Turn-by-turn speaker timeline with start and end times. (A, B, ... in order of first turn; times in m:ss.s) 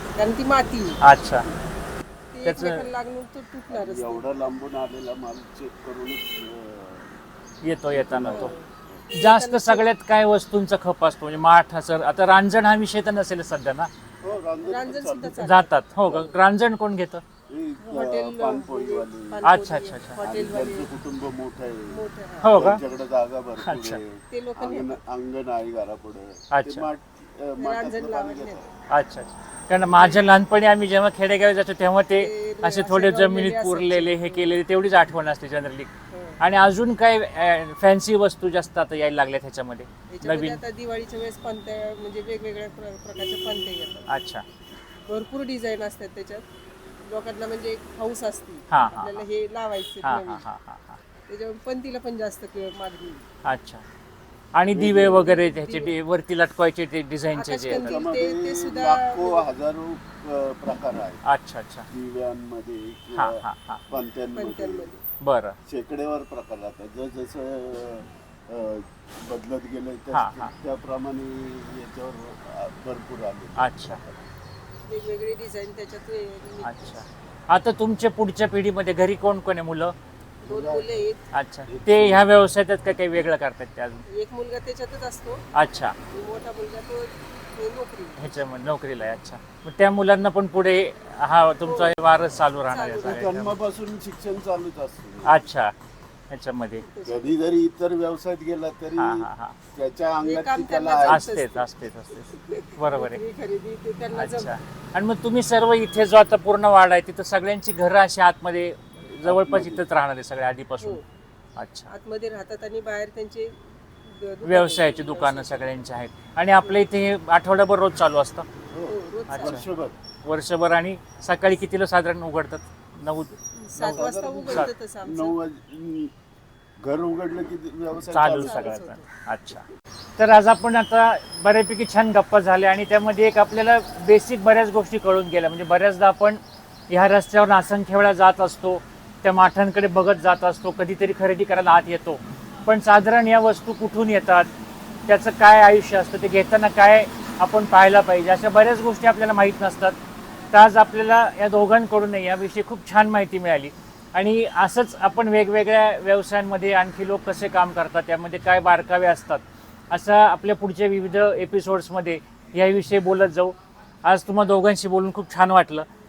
0:00.2-0:01.0 A
0:01.0-0:01.5 B
0:02.3-0:04.5 A
0:02.4-0:02.9 B
0:03.7-0:07.1 C
0:07.6-0:08.5 B
0:07.9-0:09.0 C
0:08.3-0:09.9 A
0:09.1-0:13.9 B
0:14.2-0:15.4 C
0:14.6-0:15.7 A
0:15.4-0:17.2 B
0:16.0-0:16.4 C
0:17.5-0:19.5 C
0:17.8-0:20.9 A
0:19.4-0:20.2 B
0:20.2-0:28.7 C
0:21.9-0:22.7 A
0:22.4-0:22.8 B
0:23.6-0:24.0 B
0:24.3-0:25.0 A
0:26.5-0:26.9 B
0:27.6-0:28.7 A
0:28.9-0:40.6 B
0:29.9-0:30.3 A
0:32.1-0:34.6 A
0:36.1-0:36.4 A
0:40.1-0:44.1 A
0:44.1-0:44.4 B
0:45.1-0:46.4 A
0:47.0-0:50.4 A
0:48.7-0:49.2 B
0:50.0-0:51.0 B
0:51.3-0:53.2 A
0:53.4-0:53.8 B
0:54.5-0:58.0 B
0:54.7-0:55.4 C
0:55.1-0:56.0 A
0:57.3-0:59.5 A
0:57.7-1:01.2 C
1:01.2-1:01.9 B
1:01.9-1:04.9 C
1:03.1-1:03.8 B
1:04.3-1:05.0 A
1:05.2-1:05.6 B
1:05.6-1:14.2 C
1:10.1-1:10.5 B
1:13.6-1:14.0 B
1:14.8-1:17.0 A
1:16.6-1:19.9 B
1:20.4-1:21.2 A
1:20.4-1:21.0 C
1:21.3-1:24.0 B
1:21.7-1:22.3 C
1:24.1-1:25.4 A
1:25.5-1:26.0 B
1:26.1-1:28.4 A
1:28.2-1:33.6 B
1:31.6-1:32.0 A
1:32.6-1:33.3 A
1:33.0-1:35.4 C
1:35.2-1:35.7 B
1:36.3-1:36.8 B
1:36.8-1:37.3 A
1:37.0-1:41.3 C
1:39.0-1:39.6 B
1:40.2-1:44.5 A
1:41.1-1:43.2 B
1:44.1-1:51.0 B
1:49.2-1:49.8 C
1:51.6-1:51.9 B
1:51.9-1:55.8 A
1:54.4-1:58.4 B
1:56.6-1:56.9 A
1:58.7-1:59.9 C
1:58.8-1:59.6 A
1:59.3-1:59.6 B
2:00.2-2:03.3 B
2:03.6-2:05.3 A
2:03.8-2:06.1 C
2:03.9-2:04.7 B
2:06.8-2:08.8 C
2:08.1-2:09.6 B
2:08.3-2:09.1 A
2:10.2-2:24.5 B
2:25.1-2:30.0 B
2:30.5-2:45.9 B